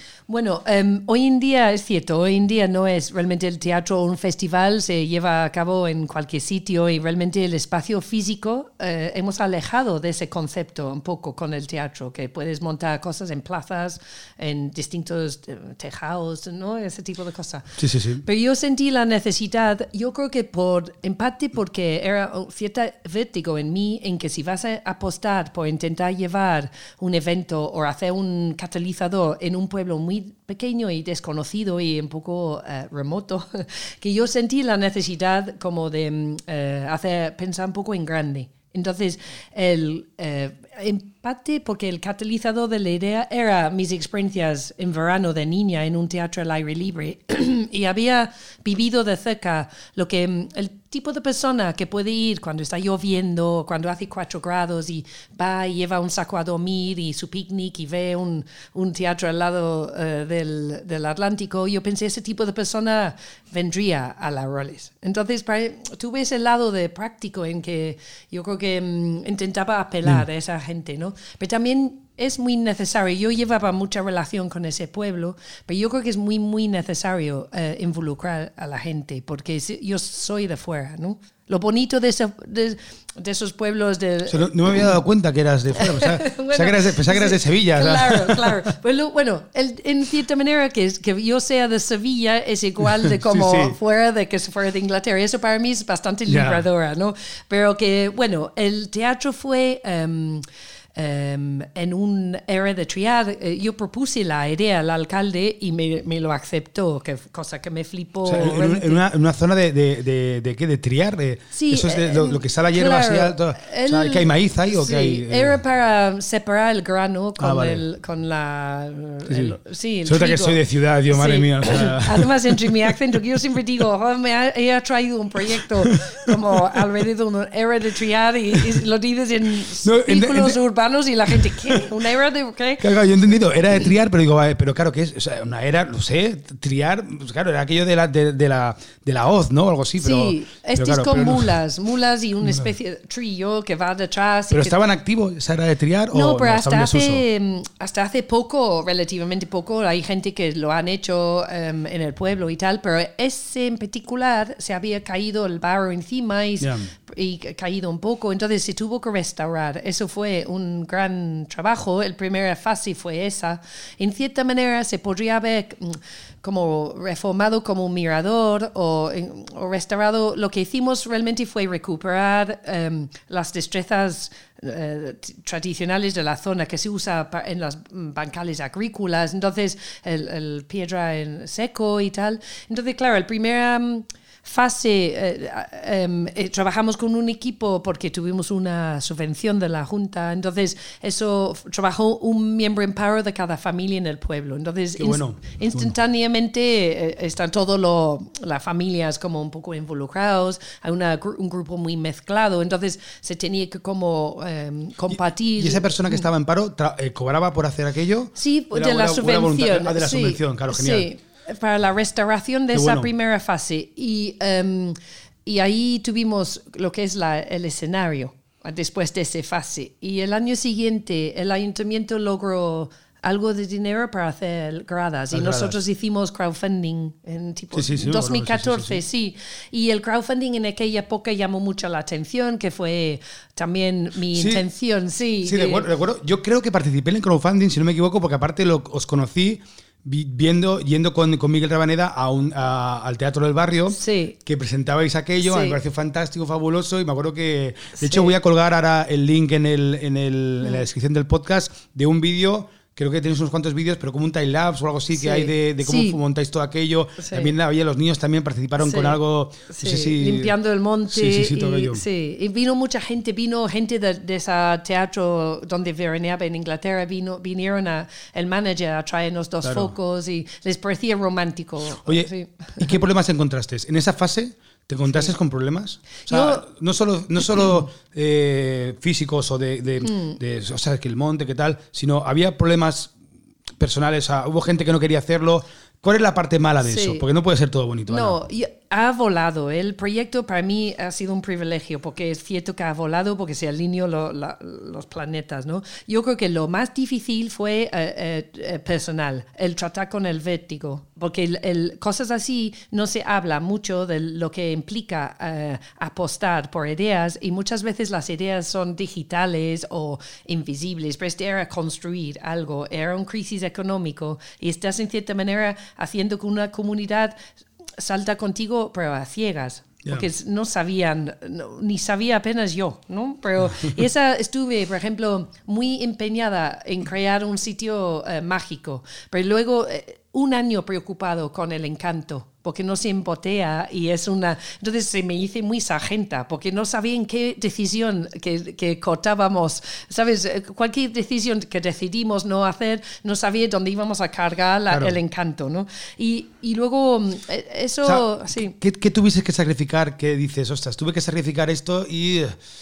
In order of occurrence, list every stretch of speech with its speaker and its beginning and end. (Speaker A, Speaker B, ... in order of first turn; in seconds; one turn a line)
Speaker A: 0.3-84.9
Speaker B: 17.8-18.2
Speaker B: 84.3-88.6
Speaker A: 85.7-109.0
Speaker B: 93.1-93.7
Speaker B: 96.3-96.6
Speaker B: 108.2-115.6
Speaker A: 111.5-132.9
Speaker B: 117.4-117.8
Speaker B: 119.3-122.8
Speaker B: 129.8-130.6
Speaker B: 131.3-131.8
Speaker B: 132.8-141.5
Speaker A: 140.0-144.8
Speaker B: 144.5-147.2
Speaker A: 146.1-206.2
Speaker B: 156.6-156.9
Speaker B: 195.0-195.9
Speaker B: 205.1-211.1
Speaker A: 208.3-235.9
Speaker B: 212.7-213.1
Speaker B: 225.3-225.8
Speaker B: 227.7-229.0
Speaker B: 234.3-234.6
Speaker B: 235.4-260.5
Speaker A: 243.9-244.4
Speaker A: 245.4-245.8
Speaker A: 248.0-248.3
Speaker A: 255.1-256.2
Speaker A: 257.2-257.5
Speaker A: 258.8-273.0
Speaker B: 261.1-262.0
Speaker B: 269.6-269.9
Speaker B: 272.0-283.1
Speaker A: 276.3-276.6
Speaker A: 280.0-280.4
Speaker B: 283.8-288.4
Speaker A: 286.8-287.2
Speaker A: 288.1-317.4
Speaker A: 318.0-348.8
Speaker B: 344.9-345.1
Speaker B: 348.0-352.6